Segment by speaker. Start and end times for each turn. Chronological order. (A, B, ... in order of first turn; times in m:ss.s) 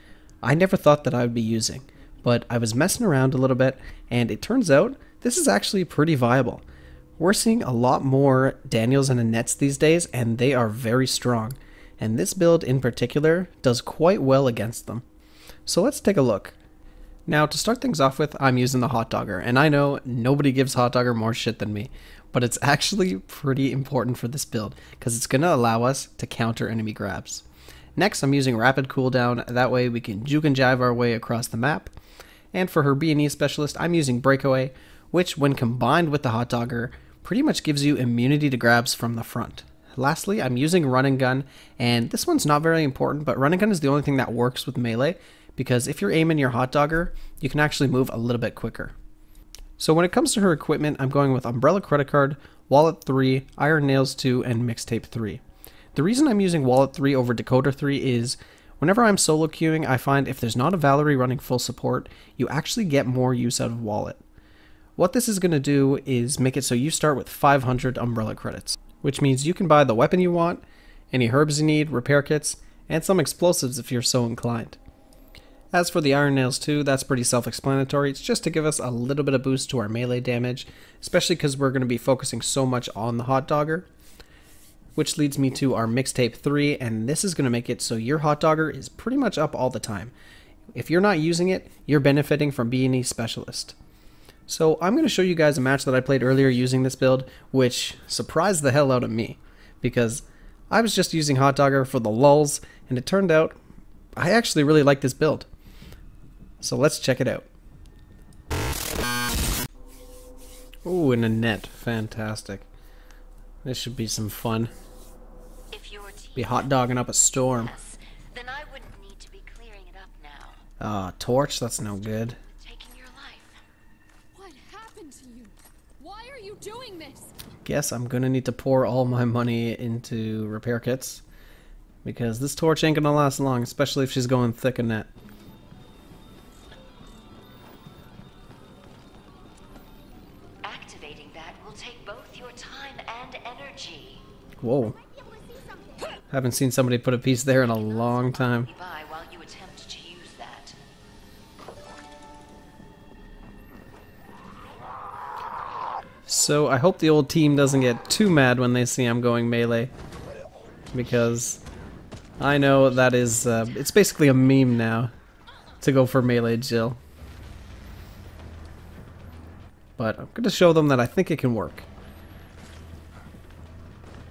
0:00.4-0:06.6 A
0:07.2-0:15.0 A
0:15.6-0:16.6 A
0:17.3-0:27.4 A
0:28.0-0:31.9 A
0:32.5-0:48.9 A
0:49.8-0:55.4 A
0:55.9-1:04.2 A
1:05.0-1:14.8 A
1:15.7-1:23.9 A
1:24.9-1:30.1 A
1:30.7-1:33.8 A
1:34.5-1:43.6 A
1:44.2-1:45.5 A
1:46.6-1:47.5 A
1:50.8-1:52.7 A
1:53.6-1:54.7 A
1:55.7-2:00.6 B
1:56.4-1:57.7 A
2:00.8-2:02.4 A
2:02.4-2:03.6 B
2:04.3-2:07.3 C
2:07.6-2:11.2 A
2:12.0-2:15.1 A
2:20.6-2:24.2 B
2:24.6-2:25.0 A
2:25.2-2:26.0 C
2:26.3-2:28.7 A
2:27.5-2:30.8 B
2:36.3-2:39.9 A
2:40.9-2:41.6 A
2:42.4-2:45.1 A
2:45.8-2:47.0 A
2:50.0-2:51.9 A